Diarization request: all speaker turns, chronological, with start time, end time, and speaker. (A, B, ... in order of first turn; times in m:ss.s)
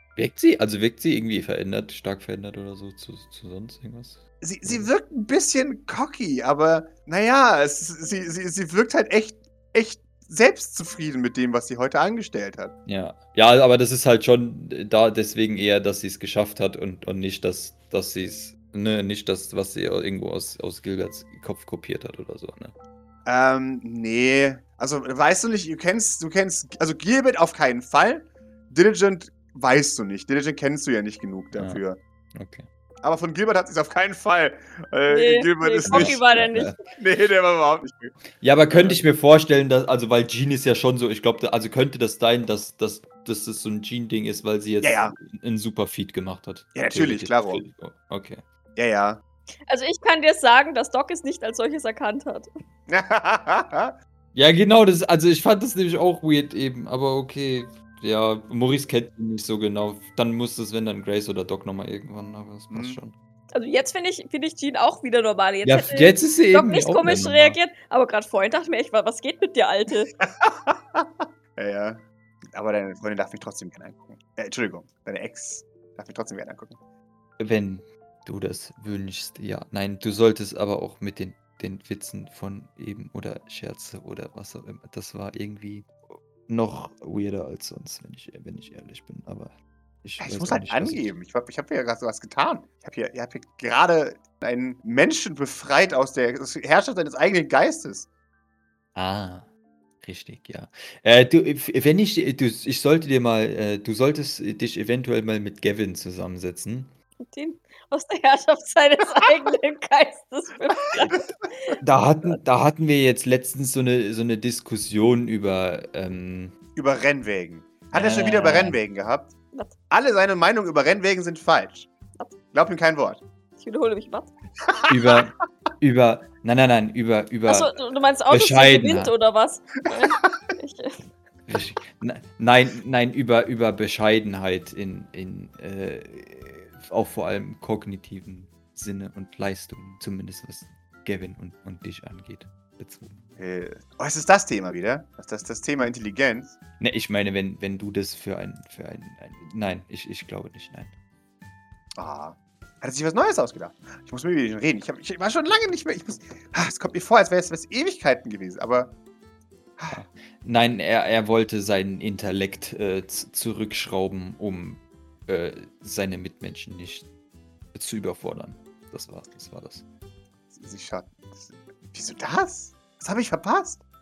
0:00.2-0:04.9 A
0:04.4-0:12.7 B
0:12.8-0:22.7 A
0:23.2-0:32.0 B
0:31.6-0:31.8 A
0:32.3-0:32.7 A
0:33.0-0:38.2 B
0:35.1-0:36.8 C
0:35.8-0:36.7 A
0:38.4-0:48.4 A
0:38.7-0:39.0 B
0:44.8-0:45.1 B
0:46.7-0:47.6 B
0:48.8-0:49.2 B
0:49.7-0:52.5 C
0:52.9-0:54.0 B
0:54.3-1:03.1 A
1:02.7-1:03.0 B
1:03.5-1:10.1 C
1:05.6-1:07.6 A
1:10.2-1:12.0 B
1:12.5-1:16.8 B
1:17.4-1:31.1 A
1:30.2-1:38.1 B
1:38.9-1:39.5 A
1:40.0-1:46.9 A
1:47.2-1:51.8 C
1:51.8-1:56.5 A
1:56.7-1:59.3 B
1:57.9-1:58.8 A
1:59.9-2:01.9 B
2:02.5-2:03.2 B
2:03.6-2:04.3 C
2:04.7-2:05.2 B
2:04.9-2:07.7 A
2:07.5-2:11.1 C
2:08.3-2:09.1 A
2:11.5-2:23.2 A
2:23.4-2:26.6 B
2:26.8-2:30.9 A
2:32.0-2:38.9 B
2:39.9-2:47.1 A
2:47.7-2:49.8 A
2:50.5-2:53.8 B